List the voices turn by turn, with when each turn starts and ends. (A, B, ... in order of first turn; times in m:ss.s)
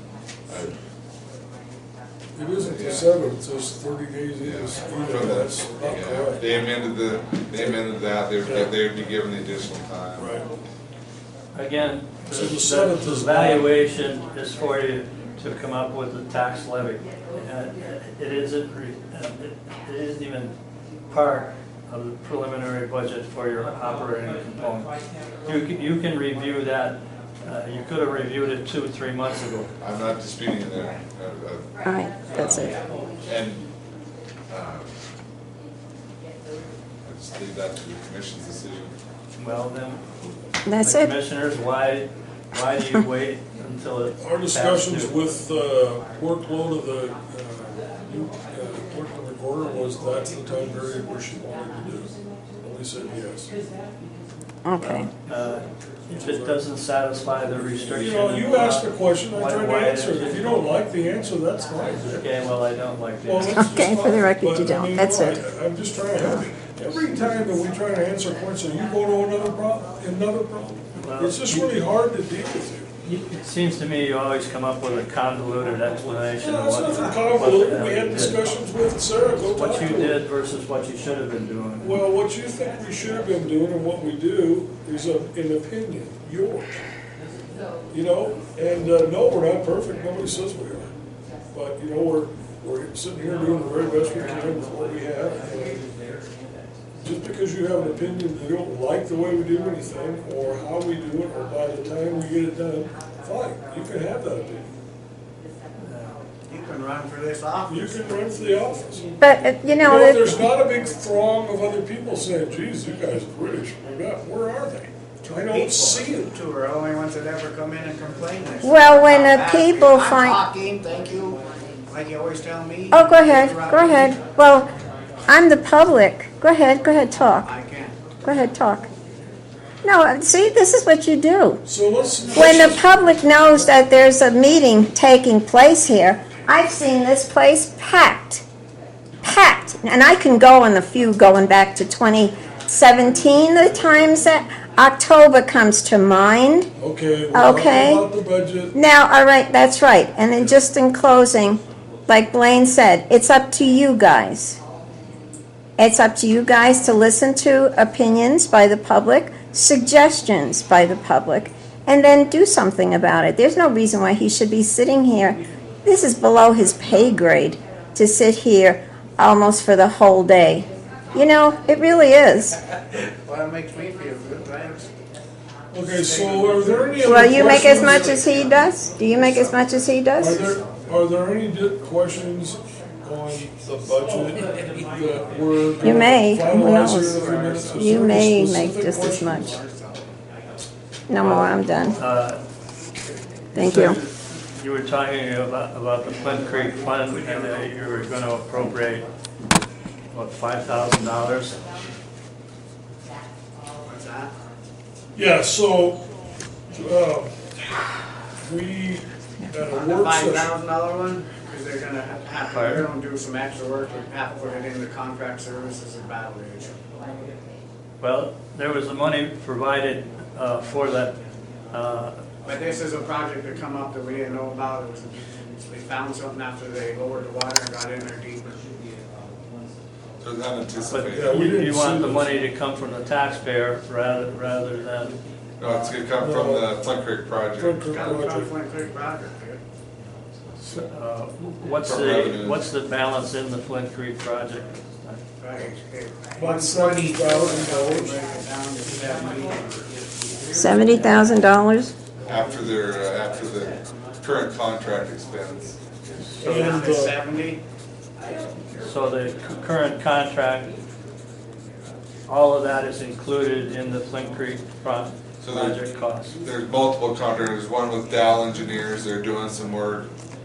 0:00.5-0:00.7 A
0:02.3-0:06.4 B
0:02.6-0:03.2 A
0:04.4-0:10.4 A
0:07.5-0:07.8 B
0:08.4-0:08.7 B
0:10.2-0:10.5 B
0:11.5-0:20.5 C
0:12.3-0:13.7 B
0:21.1-0:24.9 C
0:25.4-0:29.7 C
0:29.8-0:31.7 A
0:31.8-0:32.7 D
0:32.3-0:33.7 A
0:34.5-0:34.9 A
0:37.0-0:38.9 A
0:39.4-0:40.1 C
0:40.6-0:41.1 D
0:40.8-0:45.1 C
0:44.2-0:53.5 B
0:54.6-0:55.1 D
0:54.8-1:00.7 C
0:56.1-0:56.6 B
0:57.7-1:02.2 B
1:02.1-1:03.7 C
1:03.2-1:12.9 B
1:03.4-1:05.4 D
1:11.0-1:11.7 C
1:13.0-1:18.4 C
1:16.4-1:20.2 B
1:19.5-1:22.0 C
1:21.8-1:26.8 B
1:27.9-1:30.9 B
1:31.5-1:35.9 B
1:37.0-1:44.7 B
1:45.8-1:46.2 C
1:46.5-1:48.0 E
1:47.7-1:49.1 B
1:49.2-1:50.4 D
1:49.8-1:56.3 B
1:55.2-2:04.2 E
1:58.6-2:00.4 D
2:02.9-2:04.7 D
2:05.3-2:07.5 D
2:07.4-2:08.0 E
2:08.2-2:08.9 D
2:09.8-2:11.6 D
2:11.6-2:12.9 B
2:12.3-2:18.4 D
2:19.2-2:26.7 D
2:26.8-2:28.7 B
2:27.3-2:28.0 D
2:28.7-2:34.6 D
2:35.8-2:52.6 D
2:52.9-2:54.9 E
2:55.7-2:58.2 B
2:55.8-2:58.5 E
2:57.0-3:00.4 D
3:00.2-3:09.6 B
3:00.3-3:00.5 E
3:05.8-3:07.2 D
3:06.9-3:07.9 E
3:07.7-3:09.6 D
3:09.3-3:10.1 E
3:11.1-3:12.0 D
3:11.2-3:12.4 C
3:13.5-3:14.0 D
3:13.5-3:19.0 C
3:20.1-3:21.6 C
3:23.8-3:24.3 E
3:25.1-3:26.0 B
3:26.7-3:27.8 B
3:28.4-3:30.5 B
3:29.7-3:36.8 E
3:32.5-3:32.9 C
3:38.0-3:41.2 C
3:41.7-3:42.2 C
3:42.4-3:48.6 E
3:50.2-3:51.4 A
3:50.9-3:55.2 C
3:51.1-3:52.3 B
3:55.6-3:58.0 A
3:56.2-3:56.7 B
3:57.5-3:58.5 B
3:57.9-3:59.6 E
4:00.6-4:00.9 B
4:00.7-4:05.2 C
4:01.8-4:02.6 A
4:05.4-4:09.9 E
4:06.3-4:08.1 B
4:10.5-4:11.9 D
4:12.2-4:15.8 A
4:16.2-4:16.8 C
4:16.4-4:17.1 B
4:16.4-4:17.6 E
4:18.2-4:18.8 E
4:18.8-4:20.7 C
4:22.3-4:26.4 C
4:25.4-4:25.8 A
4:26.4-4:30.1 A